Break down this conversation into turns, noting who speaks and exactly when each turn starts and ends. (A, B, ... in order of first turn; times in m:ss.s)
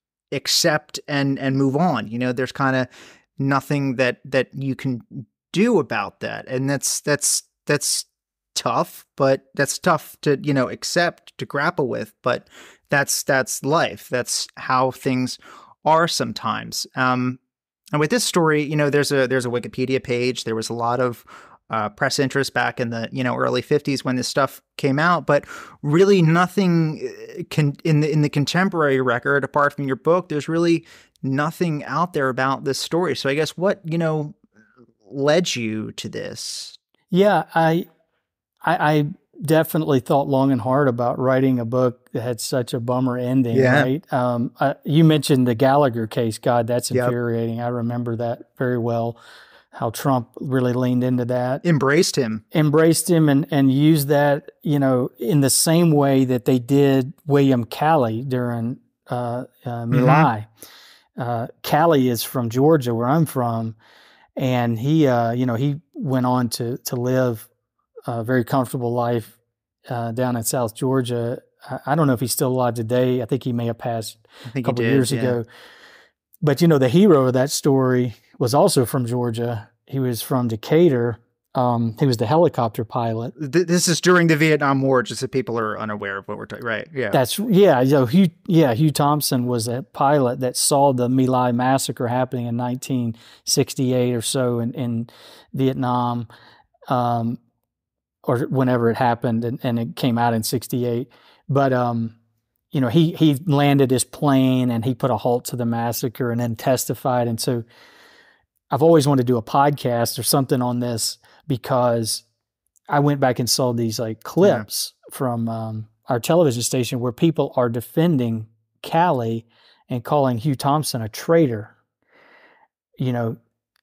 0:00.3-0:17.4 A
0:17.9-0:34.4 A
0:35.1-0:36.8 A
0:37.1-0:37.9 B
0:38.6-0:49.2 B
0:43.5-0:43.9 A
0:49.7-0:51.6 B
0:51.6-0:52.4 A
0:52.5-1:00.5 B
0:59.9-1:00.3 A
1:01.2-1:03.8 B
1:04.4-1:07.5 B
1:08.1-1:09.4 B
1:09.9-1:15.5 B
1:14.5-1:15.4 A
1:16.4-1:23.3 B
1:23.4-1:27.2 A
1:27.1-1:36.3 B
1:36.9-1:37.4 B
1:38.2-1:42.2 B
1:42.7-1:47.6 B
1:48.7-1:52.2 B
1:52.9-2:01.7 B
2:03.0-2:03.4 B